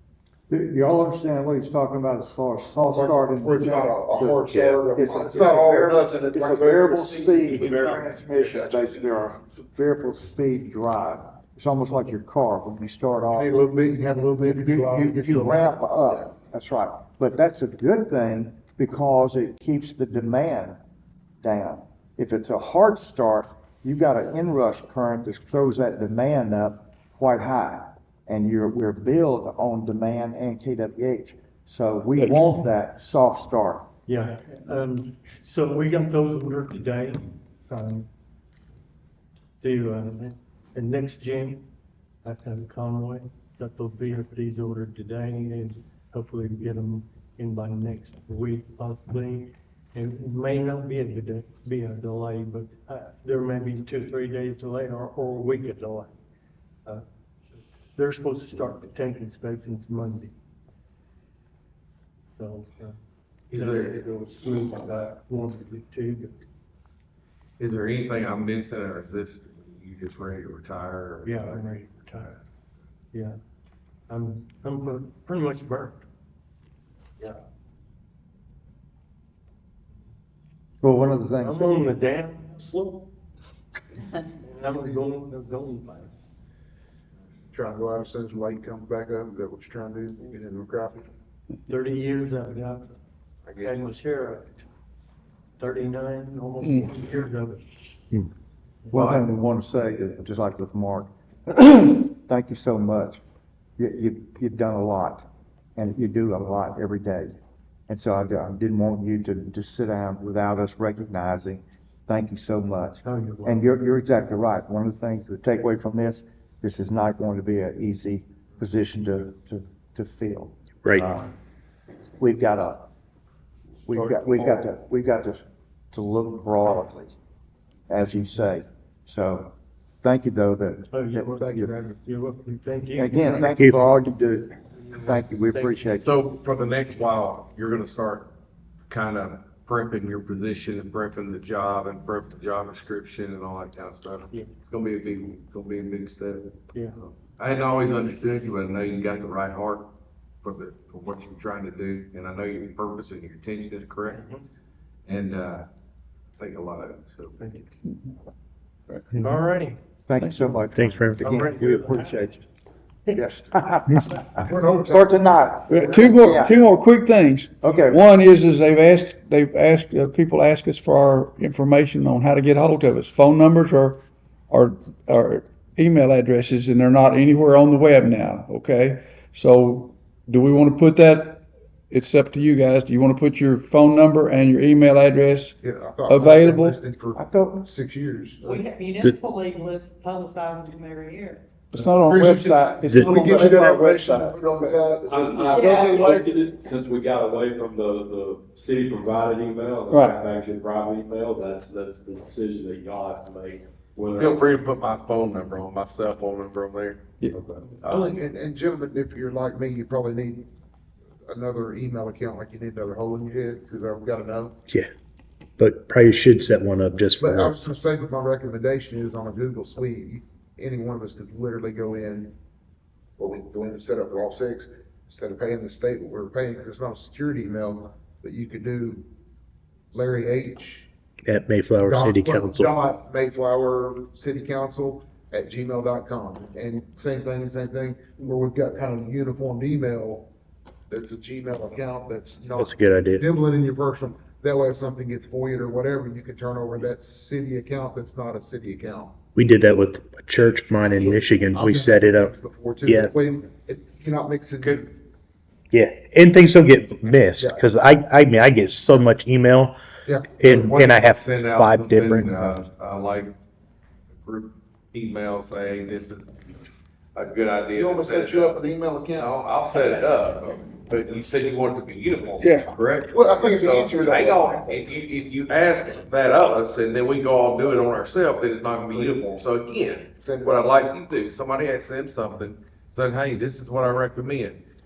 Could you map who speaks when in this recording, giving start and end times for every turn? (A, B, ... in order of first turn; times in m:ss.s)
0:00.5-0:13.6 A
0:02.9-0:08.1 B
0:13.4-0:16.3 B
0:14.4-0:20.8 A
0:21.4-0:33.9 A
0:34.1-0:38.1 C
0:39.6-0:41.6 C
0:42.2-0:56.1 C
0:58.0-1:00.3 C
1:02.4-1:03.0 C
1:03.5-1:04.0 D
1:03.5-1:06.4 C
1:07.6-1:11.7 D
1:11.2-1:12.4 C
1:13.1-1:13.4 C
1:14.1-1:16.0 C
1:20.8-1:21.8 A
1:21.4-1:23.1 C
1:24.2-1:26.1 C
1:27.5-1:31.1 B
1:31.7-1:33.0 C
1:33.4-1:33.8 D
1:33.6-1:34.7 C
1:35.6-1:37.8 C
1:38.9-1:39.3 C
1:38.9-1:43.2 A
1:43.8-1:47.4 A
1:47.9-2:01.3 A
1:53.0-1:53.7 C
2:02.2-2:02.9 A
2:03.9-2:07.2 A
2:03.9-2:04.6 C
2:07.9-2:11.7 A
2:10.9-2:13.5 C
2:11.4-2:12.0 B
2:13.0-2:16.2 A
2:13.5-2:13.8 E
2:14.9-2:15.7 C
2:16.0-2:18.3 D
2:18.9-2:26.6 D
2:26.7-2:27.0 C
2:27.4-2:29.9 D
2:30.4-2:34.3 D
2:35.1-2:35.7 D
2:36.4-2:37.4 D
2:37.4-2:37.7 C
2:38.9-2:39.3 F
2:39.1-2:39.8 C
2:40.1-2:42.4 A
2:40.8-2:41.2 E
2:41.2-2:42.3 C
2:43.1-2:46.6 A
2:44.4-2:46.2 B
2:45.7-3:05.6 F
2:47.6-2:48.0 A
3:05.6-3:08.6 B
3:06.1-3:06.8 F
3:07.2-3:07.6 A
3:08.4-3:11.4 G
3:11.7-3:14.7 F
3:11.9-3:16.1 B
3:12.9-3:13.2 E
3:15.1-3:24.5 H
3:15.5-3:16.2 G
3:19.9-3:20.2 F
3:24.1-3:27.0 D
3:27.3-3:27.6 H
3:27.8-3:28.1 D
3:27.8-3:30.5 B
3:31.3-3:34.6 B
3:35.6-3:37.7 E
3:37.2-3:42.3 B
3:43.2-3:49.0 B
3:49.9-3:50.9 B
3:51.2-3:52.7 E
3:51.8-4:00.3 B
4:00.9-4:09.1 B
4:02.6-4:03.2 E
4:09.4-4:12.3 E
4:11.0-4:14.9 B
4:12.8-4:13.1 E
4:15.7-4:19.8 E
4:17.4-4:17.7 B
4:20.1-4:20.6 B
4:20.4-4:22.3 E
4:20.4-4:23.3 D
4:24.1-4:26.4 D
4:27.2-4:44.6 D
4:27.8-4:29.3 B
4:32.4-4:32.7 F
4:33.1-4:34.9 B
4:38.9-4:39.2 B
4:40.2-4:40.8 B